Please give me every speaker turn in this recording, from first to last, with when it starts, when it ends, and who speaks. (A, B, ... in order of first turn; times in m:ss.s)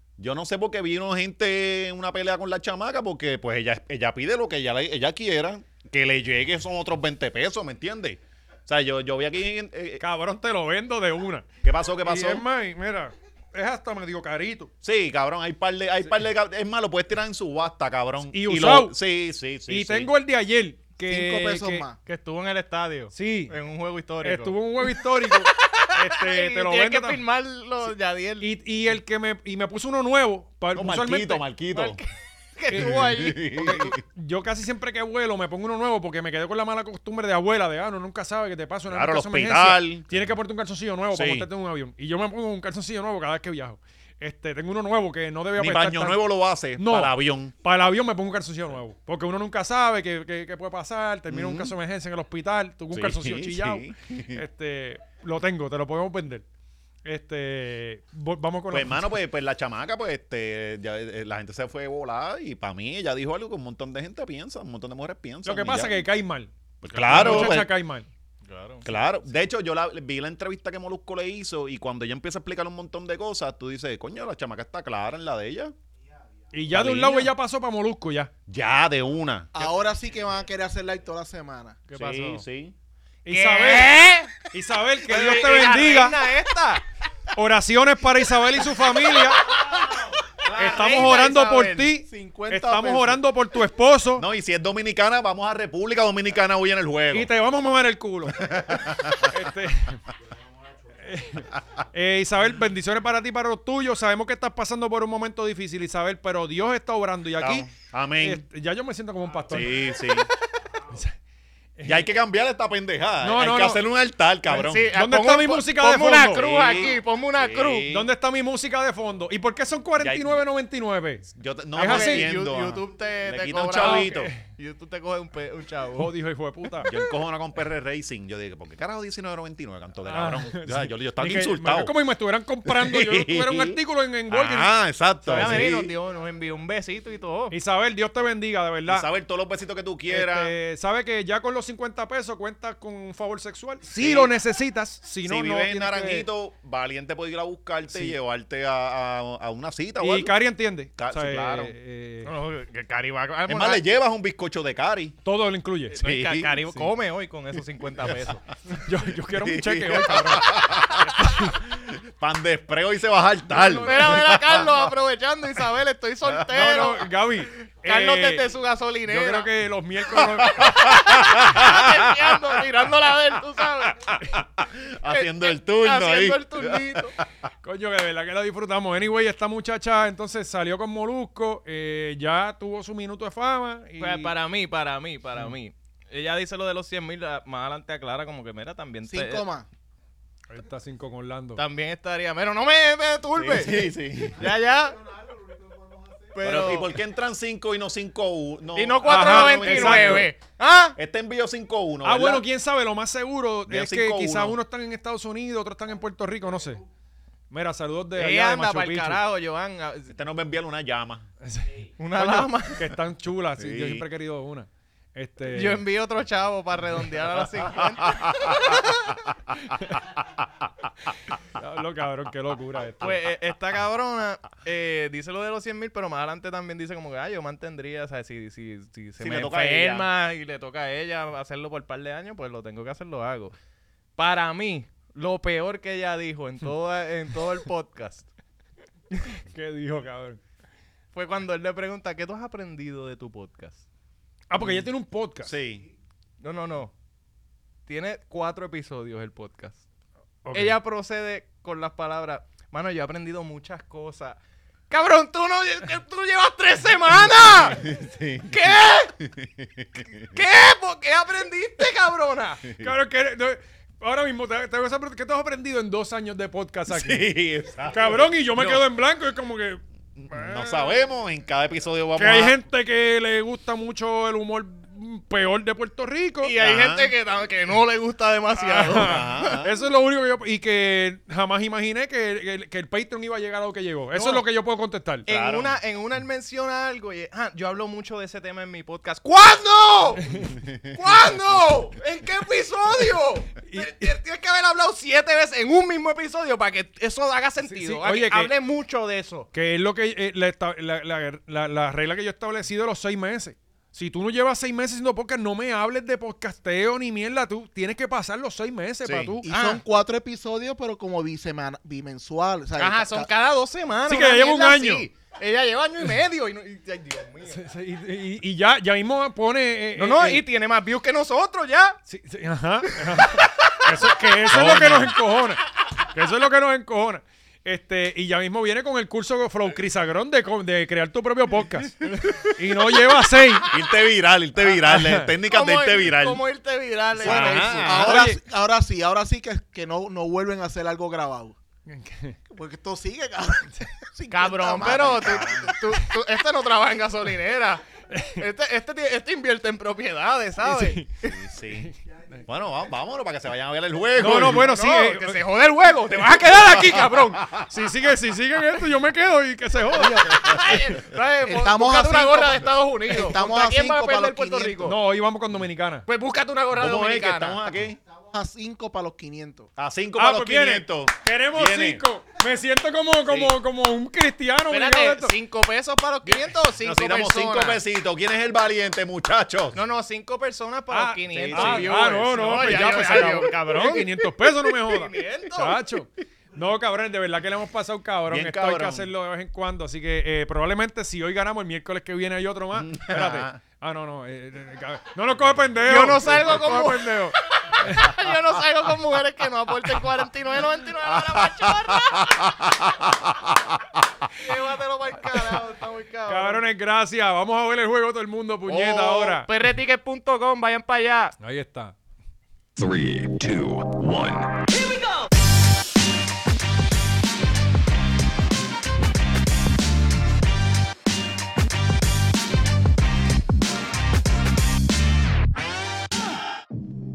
0:00.2-0:10.0 A
0:10.0-0:11.4 B
0:11.6-0:12.4 A
0:12.0-0:14.7 B
0:14.8-0:20.1 A
0:18.3-0:19.0 B
0:19.7-0:21.8 B
0:21.1-0:22.0 C
0:22.1-0:28.5 D
0:23.1-0:23.6 B
0:24.2-0:27.2 B
0:28.4-0:31.4 B
0:30.7-0:32.0 A
0:31.7-0:33.7 D
0:32.7-0:46.2 B
0:32.7-0:34.0 A
0:38.9-0:40.3 A
0:41.1-0:41.5 A
0:45.6-0:47.5 A
0:46.7-0:56.4 B
0:51.3-0:51.7 A
0:52.9-0:54.4 A
0:57.0-0:59.1 B
0:58.7-1:06.0 A
1:05.4-1:08.1 B
1:06.8-1:07.7 A
1:06.9-1:07.6 D
1:08.4-1:08.9 D
1:08.8-1:15.7 A
1:16.5-1:18.3 B
1:16.7-1:17.3 A
1:18.5-1:19.5 A
1:19.5-1:21.8 C
1:21.9-1:22.4 D
1:22.0-1:22.7 A
1:23.2-1:26.2 B
1:23.3-1:24.4 D
1:25.1-1:26.8 D
1:27.3-1:29.7 B
1:30.4-1:31.8 D
1:30.5-1:34.2 B
1:31.0-1:33.2 C
1:34.2-1:37.3 A
1:37.1-1:40.0 B
1:38.3-1:39.4 A
1:41.0-1:49.9 B
1:47.4-1:48.4 A
1:49.5-1:50.3 A
1:50.9-1:51.2 B
1:51.8-1:52.1 B
1:51.8-1:54.9 A
1:53.2-1:53.8 B
1:54.5-1:58.0 D
1:54.9-1:56.5 B
1:56.3-1:58.1 A
1:57.9-2:02.3 B
2:00.0-2:00.4 A
2:01.3-2:04.3 A
2:01.8-2:06.1 D
2:03.8-2:04.4 B
2:06.0-2:06.9 B
2:06.8-2:11.9 A
2:10.1-2:14.7 B
2:12.6-2:15.9 A
2:15.2-2:15.7 B
2:15.3-2:17.6 D
2:17.5-2:19.1 B
2:18.9-2:20.5 A
2:20.1-2:26.3 B
2:24.0-2:24.3 A
2:25.2-2:30.3 A
2:27.9-2:28.1 B
2:30.0-2:32.3 B
2:31.0-2:31.7 A
2:32.2-2:33.8 D
2:33.5-2:35.2 A
2:35.2-2:36.0 B
2:35.9-2:38.4 D
2:36.0-2:36.6 A
2:38.8-2:41.6 B
2:39.2-2:44.9 A
2:43.6-2:44.2 B
2:43.6-2:49.5 D
2:46.5-2:48.5 B
2:49.1-2:50.9 B
2:50.4-2:54.2 D
2:50.4-2:52.6 A
2:54.1-2:57.3 A
2:55.1-2:57.1 D
2:57.6-3:04.3 B
3:04.0-3:09.4 D
3:09.1-3:09.7 C
3:10.5-3:11.6 B
3:11.6-3:13.8 D
3:13.4-3:14.5 A
3:14.4-3:15.0 D
3:15.0-3:16.3 C
3:16.3-3:17.0 D
3:16.4-3:20.3 A
3:18.7-3:21.0 D
3:19.0-3:20.3 B
3:21.0-3:22.4 A
3:22.0-3:26.8 B
3:23.7-3:24.6 A
3:27.5-3:29.2 B
3:28.2-3:30.1 D
3:30.1-3:31.3 A
3:31.4-3:35.8 B
3:32.0-3:32.9 D
3:33.6-3:34.0 A
3:35.5-3:39.2 D
3:37.8-3:39.6 A
3:39.7-3:40.0 B
3:41.5-3:43.2 B
3:43.0-3:53.6 D
3:49.2-3:50.1 A
3:54.2-3:58.3 D
3:59.3-4:00.4 B
4:01.1-4:03.8 D
4:04.5-4:05.5 B
4:05.4-4:05.9 A
4:06.4-4:06.9 D
4:07.9-4:09.8 D
4:10.4-4:10.8 B
4:10.5-4:14.4 D
4:14.9-4:17.8 D
4:17.6-4:20.2 A
4:18.5-4:19.1 D
4:20.2-4:22.6 D
4:22.6-4:22.9 A
4:22.8-4:27.3 B
4:26.9-4:28.8 A
4:27.8-4:31.0 B
4:30.2-4:32.6 A
4:32.2-4:36.5 B
4:36.4-4:39.6 D
4:36.6-4:37.1 A
4:38.7-4:45.3 B
4:38.8-4:39.7 A
4:44.1-4:44.4 D
4:45.3-4:45.8 A
4:45.3-4:59.5 D
4:50.2-4:50.5 B
4:50.5-4:51.0 A
4:53.6-4:54.2 B
4:57.6-4:58.5 B
4:59.5-5:09.4 B
5:09.0-5:09.4 A
5:09.4-5:13.3 C
5:09.5-5:09.8 D
5:12.8-5:17.6 D
5:14.1-5:15.1 B
5:17.5-5:20.4 B
5:20.0-5:22.0 D
5:22.1-5:33.7 B
5:24.5-5:25.1 A
5:24.6-5:25.0 D
5:33.7-5:36.4 A
5:34.6-5:35.3 B
5:35.4-5:38.2 D
5:37.1-5:38.2 A
5:37.2-5:41.6 C
5:38.0-5:38.4 B
5:41.9-5:42.4 B
5:42.5-5:45.6 C
5:44.3-5:47.8 D
5:45.2-5:45.7 A
5:48.1-5:48.4 B
5:48.4-5:51.4 D
5:50.6-5:51.1 B
5:51.3-5:51.9 A
5:51.7-5:52.4 B
5:52.4-5:54.7 A
5:54.2-5:55.4 B
5:54.4-5:57.5 D
5:56.4-6:01.0 B
6:00.0-6:05.0 D
6:01.4-6:04.9 C
6:04.8-6:06.1 B
6:06.1-6:07.6 D
6:06.8-6:08.0 A
6:08.1-6:09.7 C
6:09.8-6:12.0 A
6:10.2-6:15.4 B
6:14.7-6:17.8 D
6:16.8-6:19.8 A
6:19.7-6:25.8 D
6:20.9-6:38.2 B
6:21.3-6:22.0 A
6:28.3-6:29.1 A
6:32.7-6:33.6 A
6:35.8-6:42.6 D
6:41.6-6:44.0 A
6:44.3-6:46.6 D
6:46.3-6:49.5 B
6:48.7-6:51.4 D
6:51.4-6:52.0 B
6:52.8-6:55.1 E